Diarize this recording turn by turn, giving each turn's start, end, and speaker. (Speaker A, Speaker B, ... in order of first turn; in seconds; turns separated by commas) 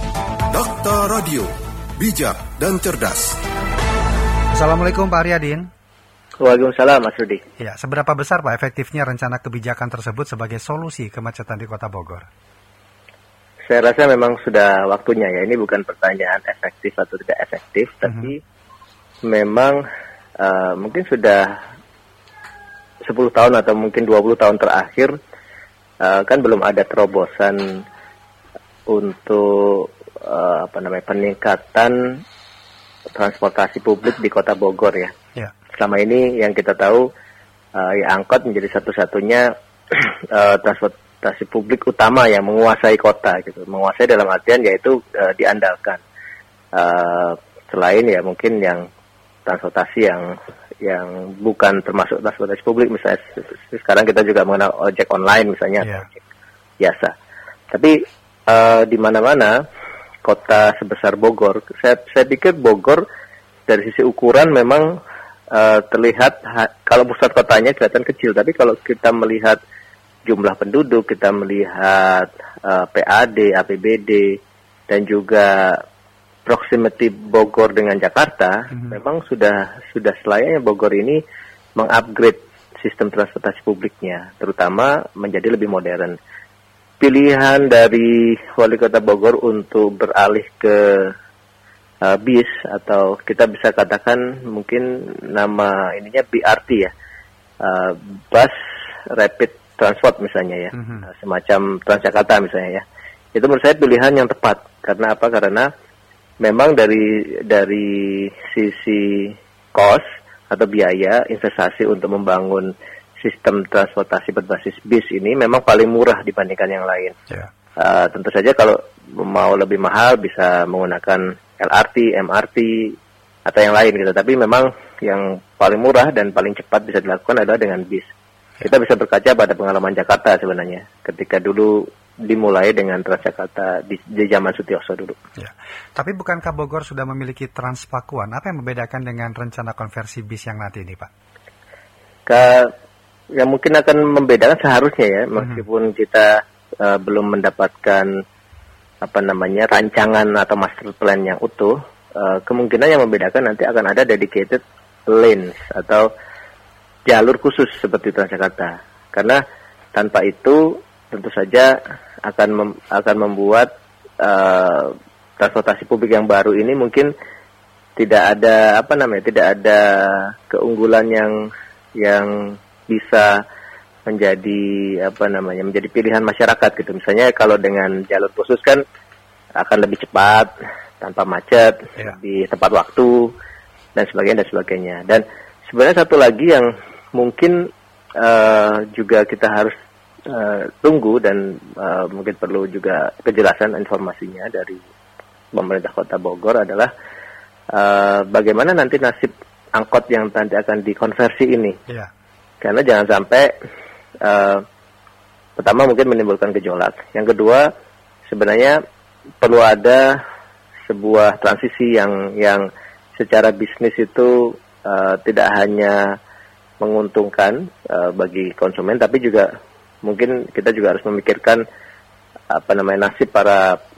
Speaker A: 0.5-3.4, Speaker B: 4.5-5.7, Speaker C: 6.4-7.4, Speaker B: 7.6-12.3, Speaker C: 13.7-18.4, Speaker C: 19.2-19.8, Speaker C: 20.4-21.6, Speaker C: 23.1-25.1, Speaker C: 26.0-27.8, Speaker C: 28.9-32.2, Speaker C: 33.2-35.1, Speaker C: 35.8-37.1, Speaker C: 37.8-46.0, Speaker C: 46.7-48.9, Speaker C: 49.5-56.2, Speaker B: 55.8-56.1, Speaker C: 56.8-57.1, Speaker C: 58.5-59.6, Speaker C: 60.2-63.0, Speaker C: 63.7-65.0, Speaker C: 65.5-69.6, Speaker C: 70.3-74.4, Speaker C: 74.9-75.8, Speaker C: 76.5-81.2, Speaker C: 81.8-86.2, Speaker C: 87.0-91.2, Speaker C: 92.0-96.9, Speaker C: 97.6-98.5, Speaker C: 99.1-102.8, Speaker B: 100.7-101.1, Speaker C: 103.3-105.7, Speaker C: 106.4-117.2, Speaker C: 117.8-128.1, Speaker C: 128.6-135.2, Speaker B: 135.4-141.1, Speaker C: 142.3-142.7, Speaker C: 143.4-146.3, Speaker C: 146.8-148.1, Speaker C: 149.0-156.1, Speaker C: 157.1-159.4, Speaker C: 159.9-163.7, Speaker C: 164.2-167.1, Speaker C: 168.0-171.4, Speaker C: 172.0-173.4, Speaker C: 174.1-178.8, Speaker C: 179.6-183.3, Speaker C: 184.0-187.6, Speaker C: 188.2-189.7, Speaker C: 190.3-194.8, Speaker C: 195.5-196.9, Speaker C: 197.7-201.8, Speaker C: 202.6-203.5, Speaker C: 204.2-204.6, Speaker C: 205.6-207.7, Speaker C: 208.3-208.8, Speaker C: 209.4-210.2, Speaker C: 210.9-212.7, Speaker C: 213.2-216.2, Speaker C: 216.8-219.5, Speaker C: 220.0-221.6, Speaker C: 222.5-223.8